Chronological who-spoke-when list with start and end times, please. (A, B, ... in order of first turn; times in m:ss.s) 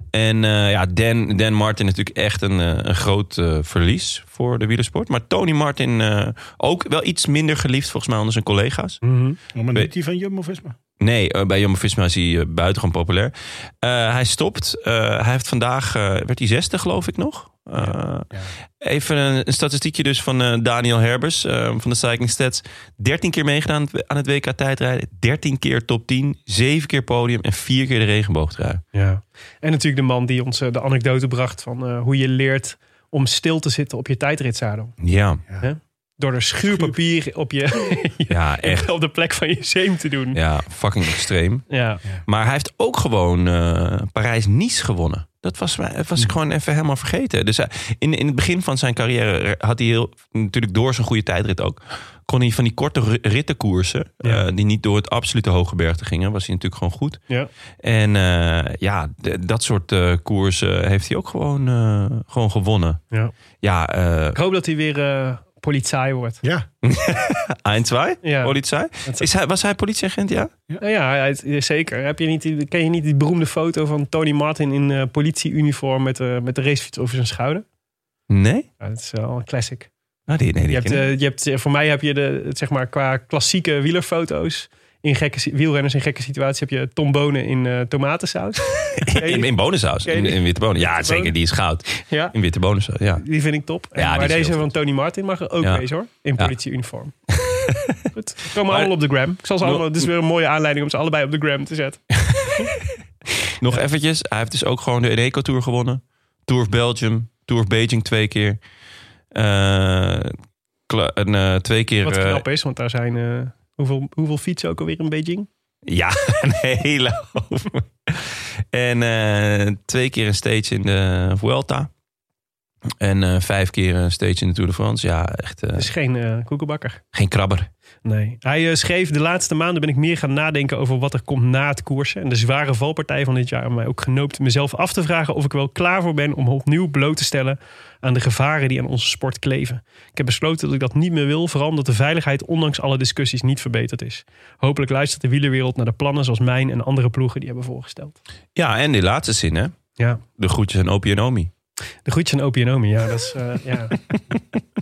0:00.1-0:09.0 A
0:09.0-0:09.4 B
0:09.5-0:10.8 C
0:11.0-0:28.8 A
0:17.8-0:18.5 C
0:28.9-0:35.0 B
0:35.0-0:35.4 A
0:35.6-0:40.4 B
0:38.3-0:38.9 A
0:40.3-0:41.7 A
0:41.7-0:42.0 B
0:42.2-0:57.2 A
0:57.8-1:03.0 A
1:03.6-1:04.4 A
1:04.4-1:06.4 B
1:06.8-1:10.5 A
1:08.2-1:09.3 B
1:10.8-1:17.6 B
1:18.3-1:18.7 A
1:18.8-1:19.9 B
1:20.3-1:21.1 A
1:20.7-1:29.5 B
1:29.0-1:33.2 A
1:30.0-1:31.4 B
1:32.0-1:32.3 B
1:33.2-1:37.2 B
1:34.0-1:34.7 A
1:37.4-1:38.0 A
1:38.1-1:42.0 B
1:38.7-1:38.9 A
1:39.6-1:40.1 A
1:42.2-1:42.7 A
1:43.6-1:48.6 A
1:49.3-1:50.3 A
1:50.9-1:52.4 A
1:52.0-1:55.5 B
1:55.9-2:01.9 A
2:03.0-2:05.9 A
2:05.8-2:07.0 B
2:07.1-2:07.7 A
2:08.0-2:28.2 B
2:28.6-2:29.7 A
2:30.4-2:31.5 A
2:32.0-2:34.0 B